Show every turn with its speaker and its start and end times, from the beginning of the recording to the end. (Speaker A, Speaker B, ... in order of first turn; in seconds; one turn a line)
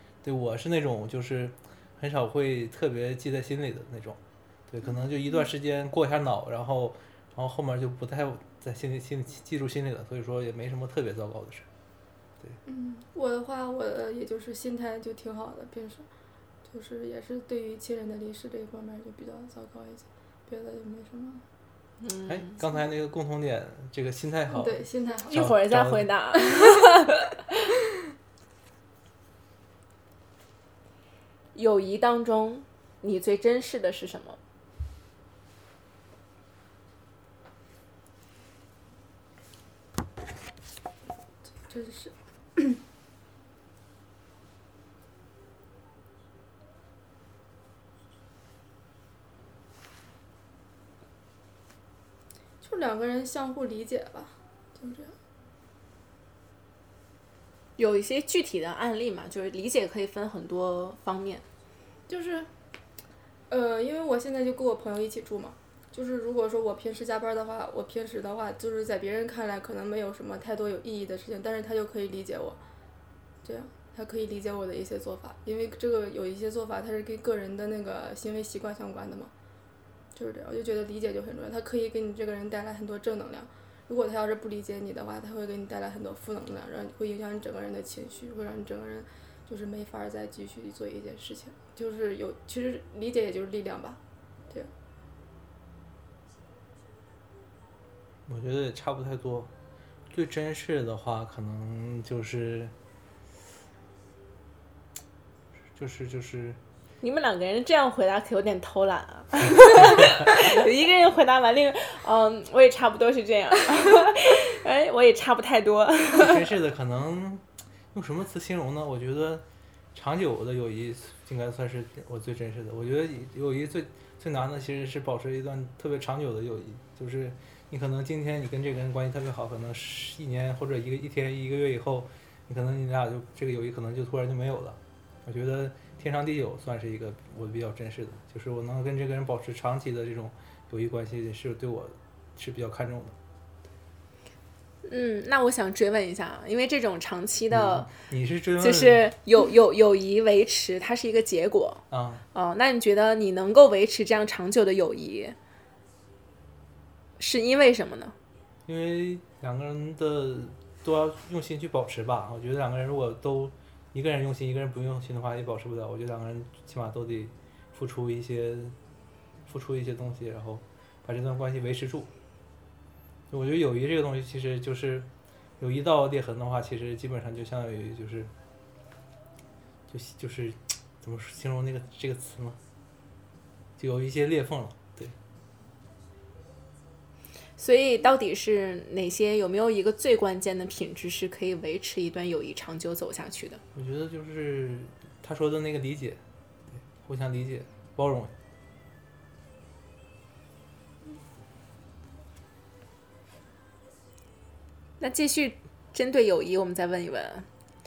Speaker A: 0.2-11.7
Speaker B: 12.7-16.1
Speaker B: 16.7-21.4
Speaker C: 22.0-22.6
Speaker A: 22.2-26.1
Speaker B: 24.5-25.5
Speaker C: 25.3-27.2
Speaker C: 31.5-34.4
Speaker B: 41.6-42.8
Speaker B: 52.6-55.1
Speaker C: 57.8-61.4
Speaker B: 62.1-62.5
Speaker B: 63.5-72.6
Speaker B: 73.4-79.3
Speaker B: 80.1-94.7
Speaker A: 98.3-99.5
Speaker A: 100.1-102.7
Speaker A: 105.8-106.6
Speaker C: 107.0-116.4
Speaker A: 116.1-143.2
Speaker C: 144.8-147.9
Speaker A: 147.5-149.1
Speaker C: 148.6-155.4
Speaker A: 151.9-152.2
Speaker C: 157.2-158.1
Speaker A: 158.7-168.8
Speaker A: 169.4-172.1
Speaker A: 173.3-175.1
Speaker A: 175.6-178.3
Speaker A: 179.9-182.6
Speaker A: 183.8-185.1
Speaker C: 187.6-193.6
Speaker A: 193.7-196.2
Speaker A: 196.7-198.3
Speaker C: 205.0-207.5